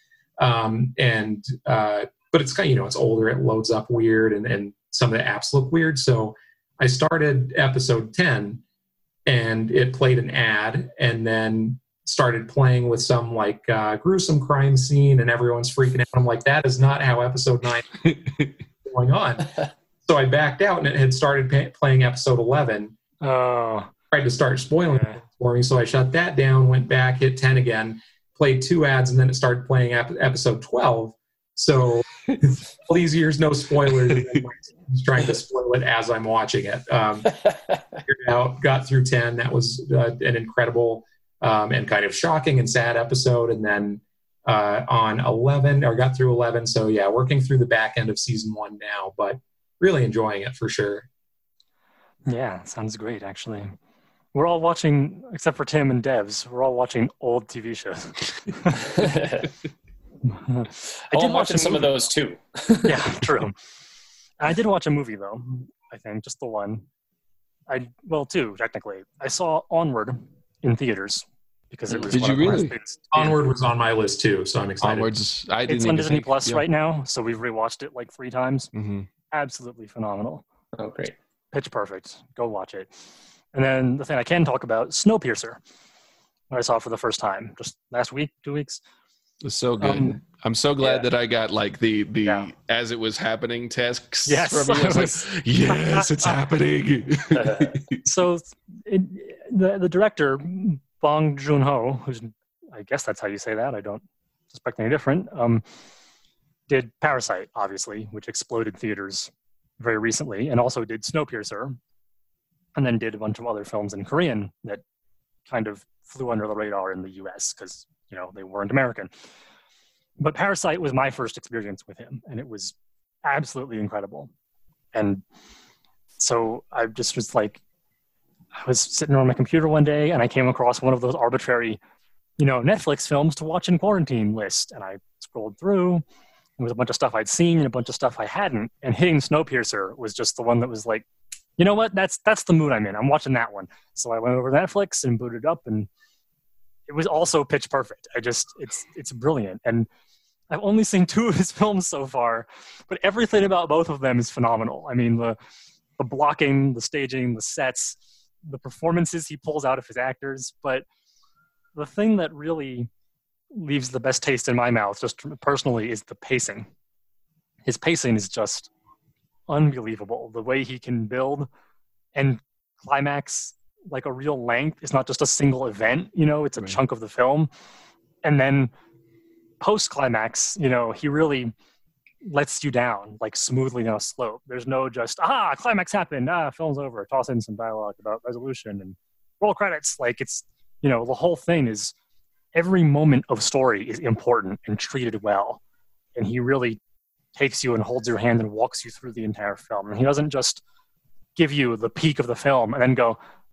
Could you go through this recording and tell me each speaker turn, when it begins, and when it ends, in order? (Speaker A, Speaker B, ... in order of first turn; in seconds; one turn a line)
Speaker A: 0.4-8.6
Speaker A: 9.3-18.0
Speaker B: 18.1-18.5
Speaker A: 18.9-23.0
Speaker C: 23.2-23.9
Speaker A: 24.1-37.4
Speaker C: 24.9-25.2
Speaker A: 38.0-51.1
Speaker C: 52.3-53.8
Speaker C: 54.3-59.2
Speaker D: 59.0-59.5
Speaker C: 60.3-62.0
Speaker D: 61.1-63.0
Speaker C: 62.8-63.6
Speaker C: 64.4-66.8
Speaker C: 67.7-73.1
Speaker B: 72.1-73.2
Speaker A: 73.1-75.1
Speaker B: 74.8-76.6
Speaker C: 75.7-78.7
Speaker B: 78.7-79.1
Speaker C: 79.3-80.4
Speaker D: 80.8-81.2
Speaker C: 81.5-85.6
Speaker C: 86.5-88.8
Speaker B: 89.4-98.0
Speaker C: 89.8-90.2
Speaker D: 90.8-91.1
Speaker C: 92.2-92.5
Speaker C: 94.3-96.1
Speaker D: 97.3-97.8
Speaker C: 98.0-105.7
Speaker C: 106.7-111.8
Speaker C: 112.8-114.8
Speaker C: 115.5-119.1
Speaker C: 120.2-124.3
Speaker C: 124.9-125.2
Speaker C: 126.2-127.6
Speaker C: 128.5-131.8
Speaker C: 132.4-136.0
Speaker C: 136.6-141.1
Speaker C: 141.6-145.9
Speaker C: 146.9-149.9
Speaker C: 150.5-155.4
Speaker C: 156.0-160.8
Speaker C: 161.8-162.9
Speaker C: 163.5-166.7
Speaker C: 167.7-168.7
Speaker C: 169.5-171.5
Speaker C: 172.2-177.5
Speaker C: 178.2-178.7
Speaker C: 179.6-181.5
Speaker C: 182.2-191.9
Speaker C: 192.5-195.6
Speaker C: 196.2-196.8
Speaker C: 197.3-200.6
Speaker C: 201.4-203.2